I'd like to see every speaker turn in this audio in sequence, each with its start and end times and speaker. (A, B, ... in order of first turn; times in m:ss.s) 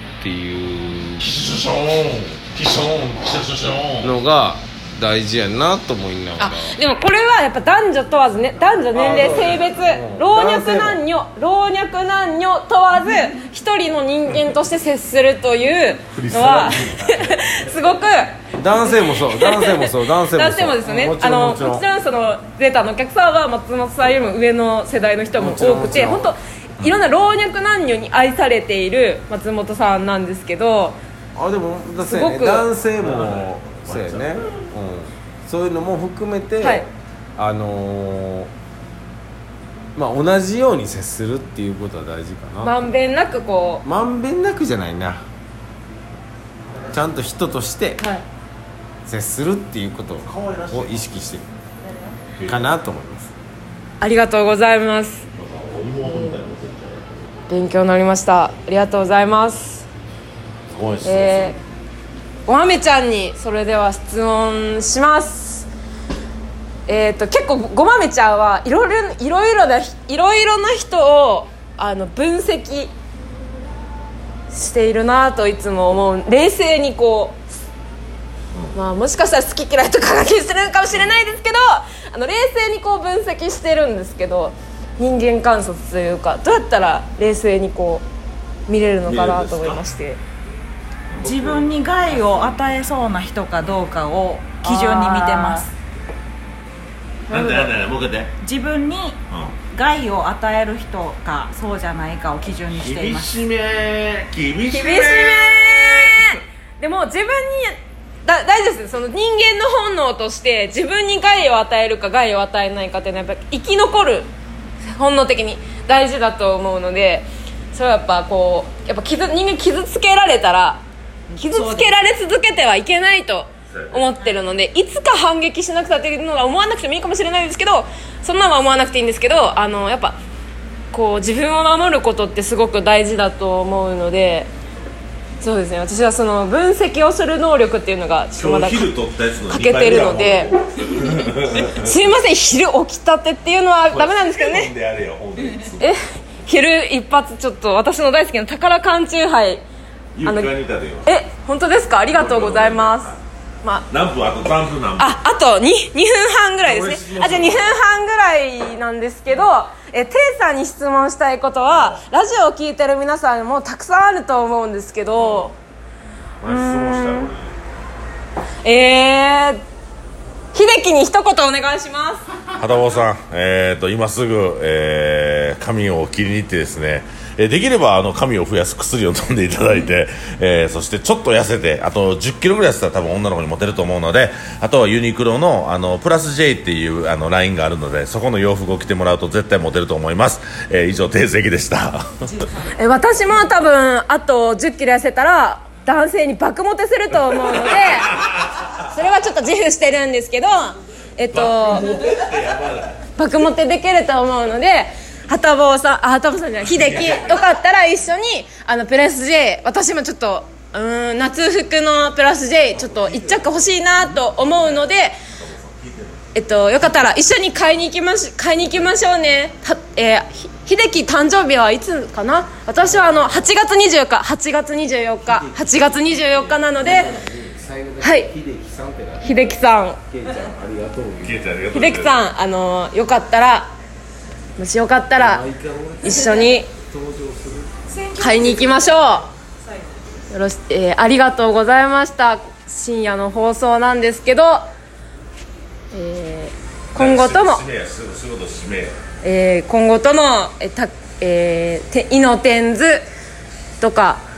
0:00.2-0:01.4 A
0:01.2-0:04.1 B
0:04.0-0:06.8 A
0:06.4-0:18.4 C
0:08.9-0:11.0 A
0:16.1-0:17.2 B
0:18.6-0:21.8 A
0:19.0-0:31.0 C
0:25.4-0:26.3 A
0:31.4-0:36.8 A
0:32.0-0:32.7 C
0:33.0-0:34.6 B
0:36.6-0:36.9 C
0:37.4-0:38.5 A
0:40.0-0:42.9 A
0:42.6-0:43.8 C
0:43.8-0:45.2 A
0:46.9-0:48.0 A
0:48.0-0:48.2 C
0:49.1-0:51.5 A
0:50.2-0:51.0 B
0:52.4-0:52.8 B
0:52.5-0:53.3 A
0:54.0-0:55.2 C
0:55.4-0:57.2 B
0:56.1-0:56.4 C
0:57.5-0:59.9 C
1:00.7-1:01.6 B
1:01.0-1:01.6 C
1:02.5-1:05.7 C
1:06.9-1:12.9 C
1:14.5-1:17.4 C
1:18.7-1:28.0 C
1:28.7-1:30.2 C
1:29.0-1:29.8 B
1:31.1-1:31.7 B
1:31.2-1:35.7 D
1:34.6-1:35.7 C
1:37.3-1:37.7 C
1:37.3-1:38.3 B
1:38.4-1:39.2 D
1:39.3-1:39.6 B
1:39.7-1:43.4 D
1:42.8-1:46.2 B
1:44.7-1:54.3 C
1:54.9-2:00.8 C
2:01.4-2:10.2 C
2:01.4-2:02.0 D
2:03.7-2:04.0 B
2:10.9-2:14.5 C
2:15.4-2:18.9 C
2:18.4-2:21.8 B
2:19.5-2:20.5 C
2:21.6-2:24.7 C
2:23.9-2:25.9 B
2:25.8-2:29.6 C
2:30.2-2:31.1 B
2:30.2-2:30.5 C
2:31.0-2:33.9 C
2:32.1-2:33.2 B
2:33.9-2:35.2 B
2:35.0-2:45.6 C
2:36.6-2:37.8 B
2:45.2-2:45.5 B
2:46.4-2:47.6 B
2:46.4-2:47.3 C
2:48.6-2:49.6 C
2:50.5-2:52.2 C
2:52.6-3:12.2 B
3:12.7-3:21.9 C
3:21.3-3:23.0 B
3:23.2-3:35.2 C
3:32.9-3:33.6 B
3:34.4-3:34.8 B
3:35.4-3:36.2 B
3:36.4-3:47.1 C
3:42.8-3:43.3 A
3:45.2-3:49.5 A
3:48.0-3:48.3 C
3:49.2-3:50.0 C
3:50.1-3:51.4 A
3:51.2-3:52.2 B
3:51.7-3:53.7 C
3:54.6-3:55.4 C
3:55.2-3:57.8 A
3:56.0-3:56.7 C
3:57.9-4:00.0 D
3:58.2-3:59.3 C
4:00.3-4:04.6 C
4:05.9-4:07.6 C
4:07.0-4:09.0 B
4:09.2-4:13.0 C
4:13.8-4:14.2 C